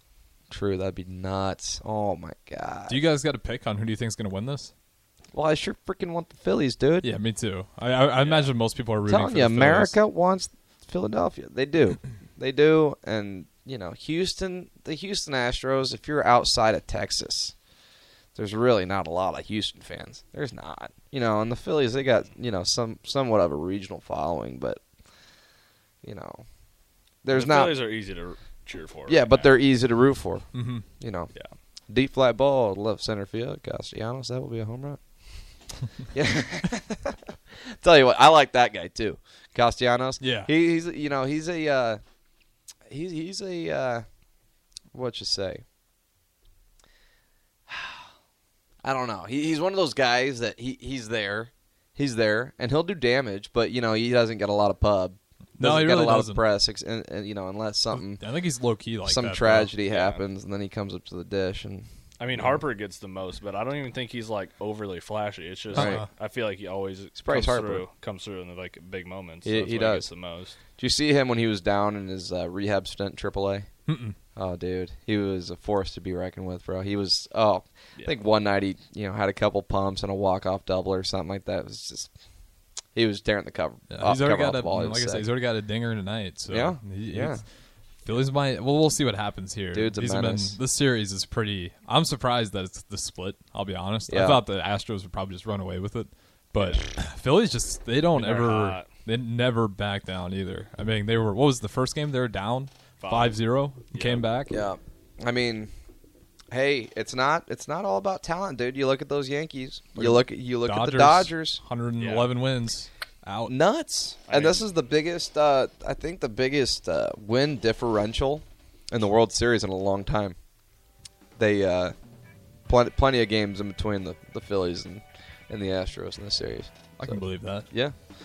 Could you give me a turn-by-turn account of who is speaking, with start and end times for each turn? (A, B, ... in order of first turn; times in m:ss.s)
0:00.5-0:03.0 A
0:02.9-0:04.7 B
0:05.3-0:07.1 A
0:07.0-0:10.0 B
0:08.2-0:08.5 C
0:09.0-0:17.5 A
0:18.3-0:24.8 A
0:26.0-0:26.4 A
0:27.2-0:27.8 A
0:27.3-0:29.6 C
0:29.1-0:31.3 A
0:30.5-0:30.9 B
0:31.9-0:35.0 A
0:36.1-0:42.0 A
0:40.2-0:40.5 B
0:42.9-0:44.0 A
0:44.9-0:45.6 A
0:47.7-0:48.0 A
0:48.8-0:58.2 A
0:55.6-0:56.4 B
0:57.9-0:59.7 B
0:59.0-1:01.9 A
0:59.9-1:00.2 C
1:02.2-1:10.6 C
1:05.7-1:06.0 A
1:05.7-1:06.1 B
1:07.2-1:07.8 A
1:09.4-1:10.1 A
1:10.8-1:13.7 A
1:13.9-1:14.2 B
1:14.4-1:22.1 A
1:22.9-1:25.3 A
1:23.9-1:27.4 B
1:26.5-1:27.4 A
1:28.0-1:44.7 B
1:29.7-1:30.6 A
1:34.1-1:34.4 A
1:36.6-1:36.8 C
1:38.1-1:38.9 C
1:43.0-1:43.4 C
1:43.9-1:44.2 C
1:44.5-1:45.7 A
1:46.5-1:51.6 A
1:50.0-1:53.6 B
1:52.0-1:52.3 C
1:53.4-2:00.4 A
1:54.3-1:54.7 C
2:01.4-2:01.9 A
2:02.7-2:07.9 A
2:07.0-2:07.7 B